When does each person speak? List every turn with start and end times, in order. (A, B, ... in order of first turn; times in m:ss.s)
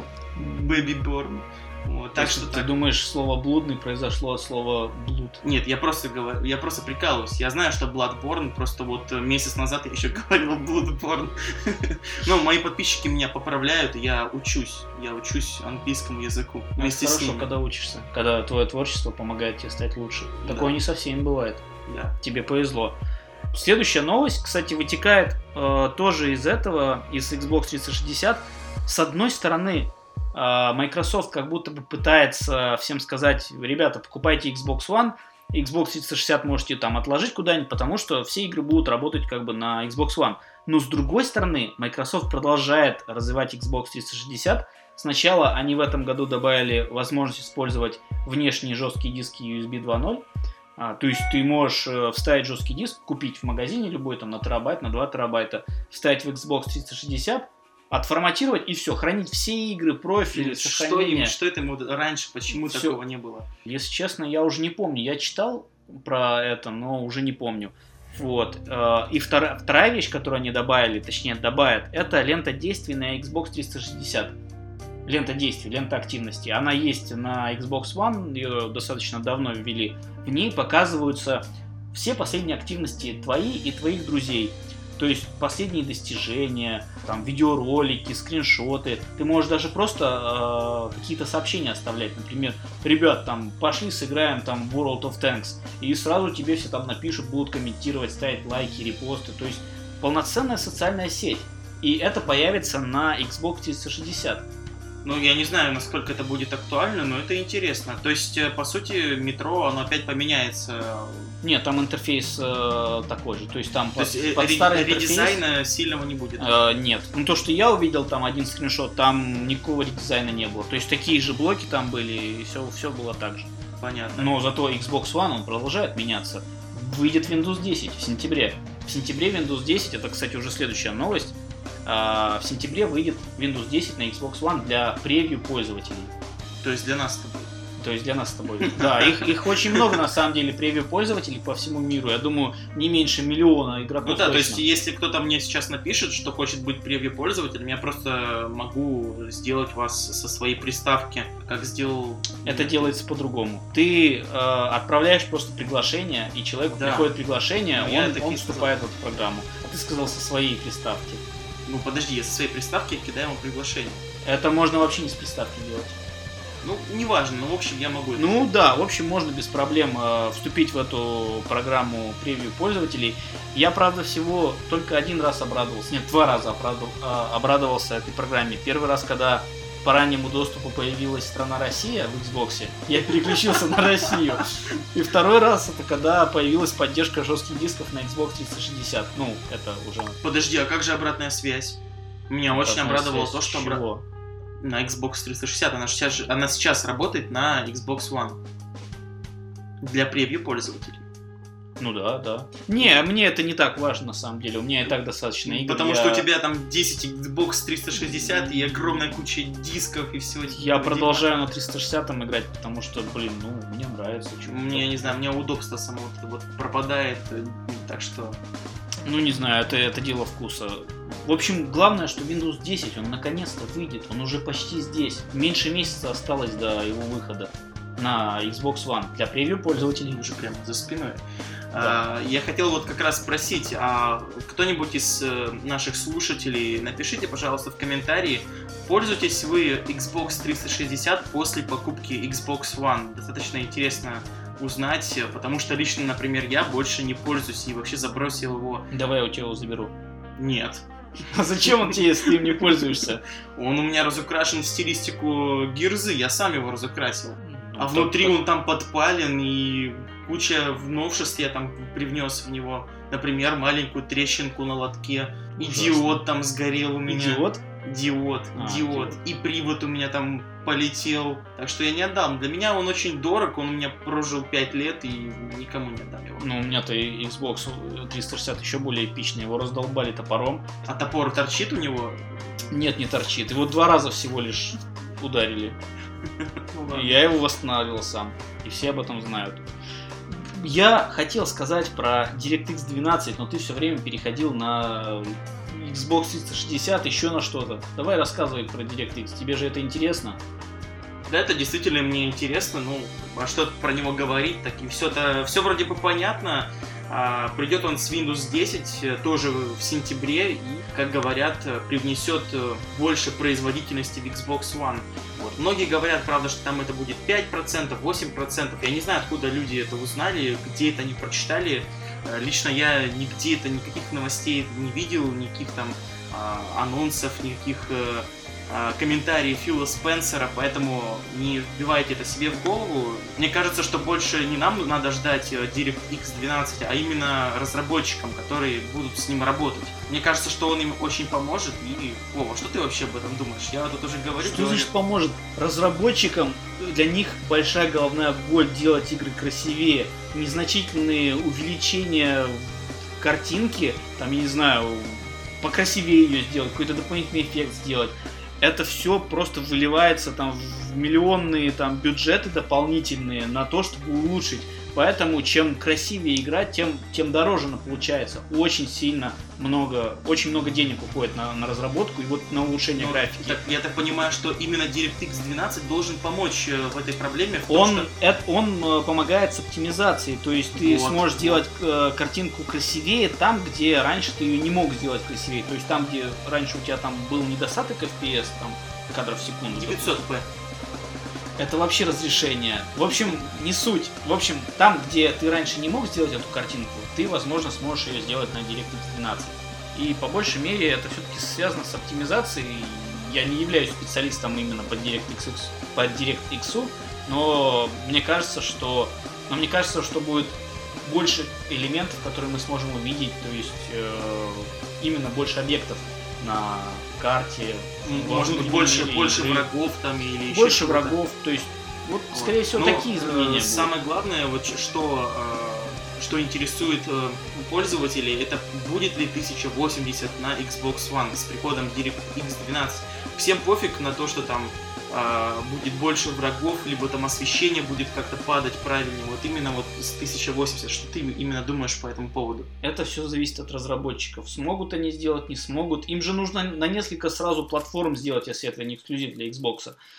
0:00.4-0:00.9 A
0:00.4-0:02.7 B
0:02.1-0:05.4 A
0:05.4-0:17.5 B
0:16.8-0:21.6 A
0:20.5-0:20.8 B
0:21.9-0:22.1 B
0:22.2-0:23.0 A
0:23.5-0:50.3 A
0:50.8-1:01.4 A
1:00.3-1:03.5 B
1:02.6-1:03.0 A
1:03.6-1:14.4 A
1:15.1-1:44.5 A
1:45.0-1:51.4 B
1:51.4-1:55.4 A
1:54.0-1:56.5 B
1:56.4-2:03.5 A
2:03.8-2:04.3 B
2:04.1-2:16.1 A
2:16.6-2:17.5 B
2:17.8-2:24.6 A
2:18.6-2:20.0 B
2:24.0-2:32.9 B
2:32.4-2:41.2 A
2:36.7-2:37.1 B
2:37.8-2:38.7 B
2:41.6-2:44.0 B
2:44.2-2:46.0 A
2:46.6-2:48.4 B
2:48.2-3:10.2 A
3:10.2-3:13.8 B
3:12.5-3:14.0 A
3:14.6-3:18.4 B
3:19.8-3:21.0 B
3:21.8-3:26.3 A
3:25.4-3:31.3 B
3:30.5-3:35.2 A
3:34.4-3:38.4 B
3:39.1-3:50.2 A
3:50.1-4:08.9 B
4:08.9-4:09.9 A
4:10.4-4:10.8 B
4:11.3-4:13.2 A
4:11.6-4:12.0 B
4:13.6-4:36.5 B
4:17.4-4:18.4 A
4:25.6-4:26.2 A
4:27.1-4:27.6 A
4:28.6-4:29.2 A
4:36.4-4:40.7 A
4:40.8-4:42.7 B
4:42.7-4:45.8 A
4:46.4-4:47.2 B
4:46.9-4:49.6 A
4:50.3-5:00.4 A
5:01.3-5:44.9 B
5:44.4-6:13.6 A
6:12.9-6:18.1 B
6:17.7-6:30.2 A
6:20.7-6:21.6 B
6:29.8-6:30.5 B
6:31.6-6:59.6 A
6:58.1-7:01.1 B
7:00.5-7:03.9 A
7:02.3-7:22.7 B
7:22.8-7:30.0 A